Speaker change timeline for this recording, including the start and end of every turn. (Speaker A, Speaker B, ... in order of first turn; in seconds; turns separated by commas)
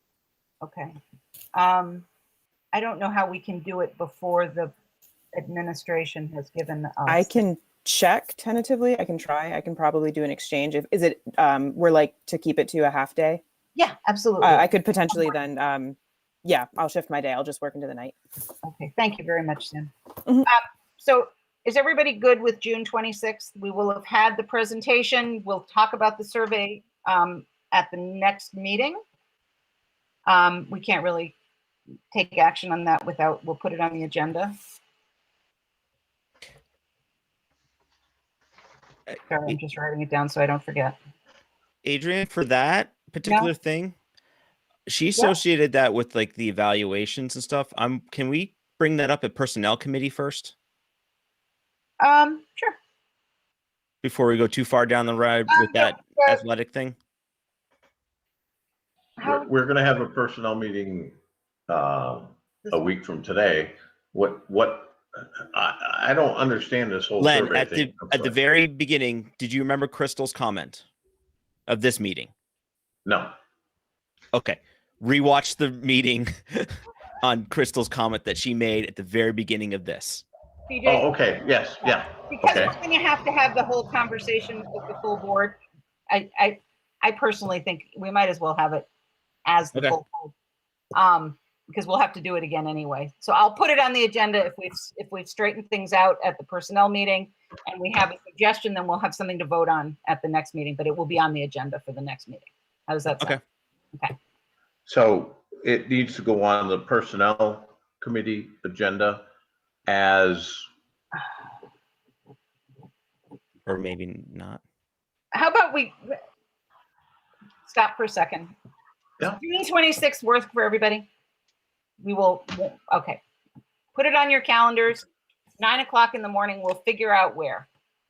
Speaker A: 0.6-0.9, Speaker A: 1.5-2.0, Speaker A: 2.7-4.7, Speaker A: 5.3-7.4, Speaker B: 7.1-13.4, Speaker A: 13.7-14.7, Speaker B: 14.4-18.1, Speaker A: 18.6-19.9, Speaker A: 20.4-29.0, Speaker A: 30.3-31.3, Speaker A: 32.1-34.5, Speaker A: 39.3-41.0, Speaker C: 41.8-43.9, Speaker A: 43.2-43.5, Speaker C: 44.9-50.5, Speaker A: 52.0-52.8, Speaker C: 54.0-57.0, Speaker A: 55.5-56.4, Speaker A: 59.2-59.4, Speaker D: 59.2-61.1, Speaker D: 61.7-65.0, Speaker D: 65.5-68.3, Speaker C: 67.2-70.8, Speaker C: 71.7-72.3, Speaker D: 73.0-73.3, Speaker C: 74.3-80.2, Speaker A: 80.7-81.1, Speaker D: 80.8-82.7, Speaker A: 81.8-85.6, Speaker A: 86.1-88.8, Speaker A: 89.5-90.3, Speaker A: 90.9-103.4, Speaker D: 104.8-109.3, Speaker D: 109.9-110.7, Speaker C: 113.6-114.6, Speaker A: 115.3-116.1, Speaker A: 117.7-118.5, Speaker A: 119.4-121.0, Speaker A: 122.0-123.2, Speaker A: 123.9-125.0, Speaker A: 125.6-127.7